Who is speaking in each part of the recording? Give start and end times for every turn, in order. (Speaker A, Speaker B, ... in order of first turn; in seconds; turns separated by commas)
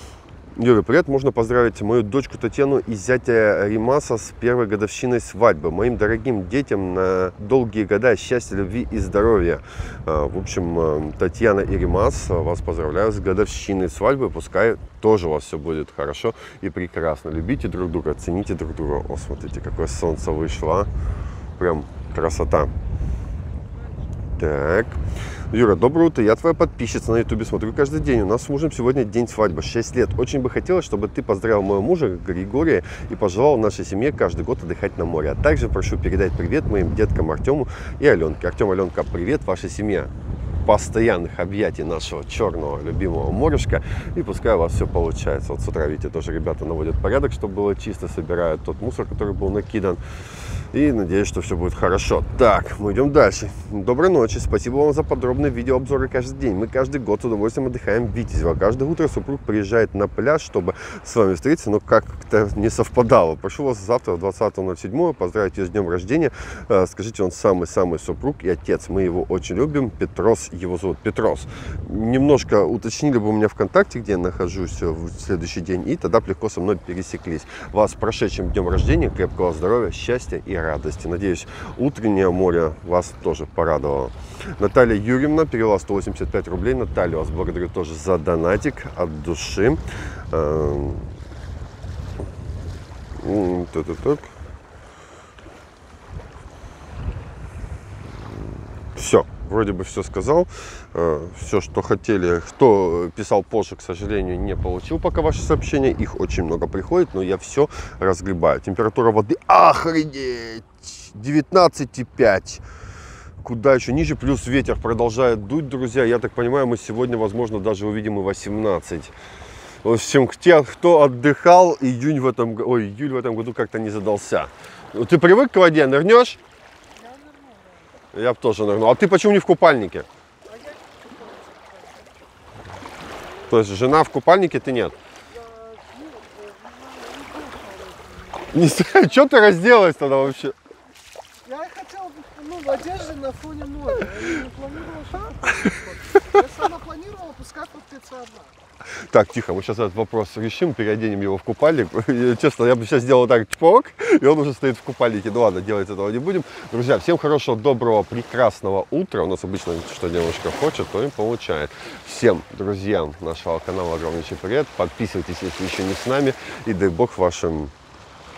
Speaker A: 0.6-20.9, Speaker A: 21.6-22.7, Speaker A: 24.4-25.0, Speaker A: 25.5-40.1, Speaker A: 40.6-50.0, Speaker A: 50.6-91.1, Speaker A: 93.2-94.3, Speaker A: 98.9-112.6, Speaker A: 113.4-119.1, Speaker A: 119.8-126.4, Speaker B: 126.9-127.9, Speaker A: 128.1-130.1, Speaker B: 130.5-132.1, Speaker A: 133.5-135.0, Speaker B: 135.3-139.3, Speaker A: 138.5-140.6, Speaker B: 141.4-148.6, Speaker A: 149.1-167.7